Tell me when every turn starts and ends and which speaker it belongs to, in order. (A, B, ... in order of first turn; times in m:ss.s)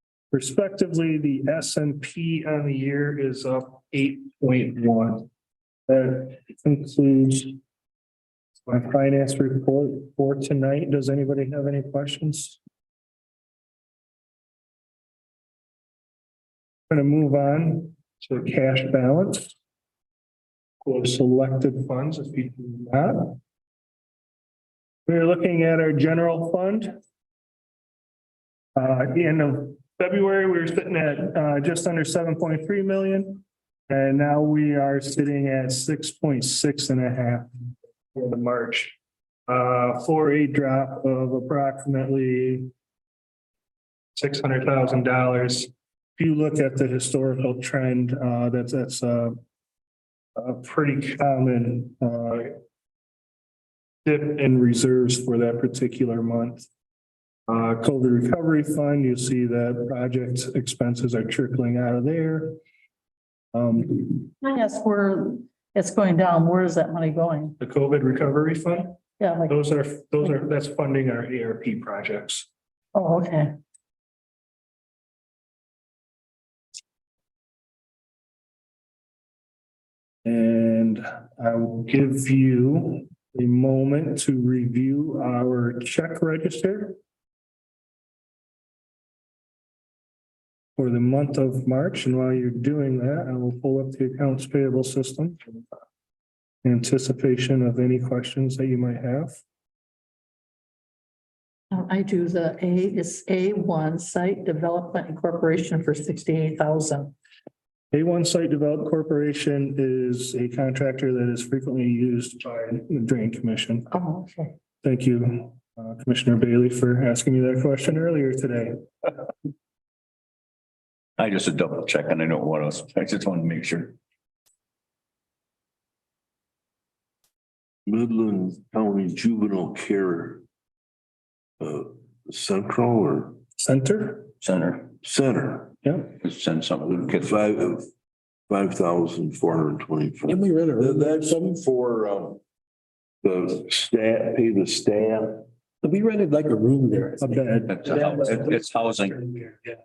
0:00.3-0:05.3 A
0:05.9-0:07.6 A
0:08.6-0:12.6 A
0:16.9-0:19.5 A
0:20.8-0:23.4 A
0:25.1-0:27.0 A
0:28.8-0:37.5 A
0:38.1-0:39.0 A
0:39.5-0:42.7 A
0:44.1-0:49.4 A
0:50.4-0:52.6 A
0:54.0-0:56.7 A
0:57.5-1:02.6 A
1:03.5-1:04.2 A
1:04.4-1:07.6 B
1:07.6-1:09.0 A
1:09.2-1:09.6 B
1:09.5-1:12.5 A
1:12.9-1:13.5 B
1:20.2-1:27.0 A
1:30.8-1:35.4 A
1:36.6-1:39.4 A
1:41.7-1:47.1 B
1:47.9-1:53.9 A
1:53.9-1:54.6 B
1:54.8-1:58.8 A
2:01.2-2:03.9 C
2:07.9-2:10.4 D
2:11.6-2:13.4 D
2:13.6-2:14.3 A
2:14.4-2:14.9 C
2:15.0-2:15.7 D
2:15.8-2:16.1 A
2:16.2-2:17.4 C
2:17.1-2:17.9 D
2:18.5-2:22.4 D
2:20.3-2:21.4 E
2:23.2-2:25.5 D
2:25.8-2:28.5 E
2:27.2-2:28.0 A
2:27.7-2:29.2 C
2:29.1-2:29.7 E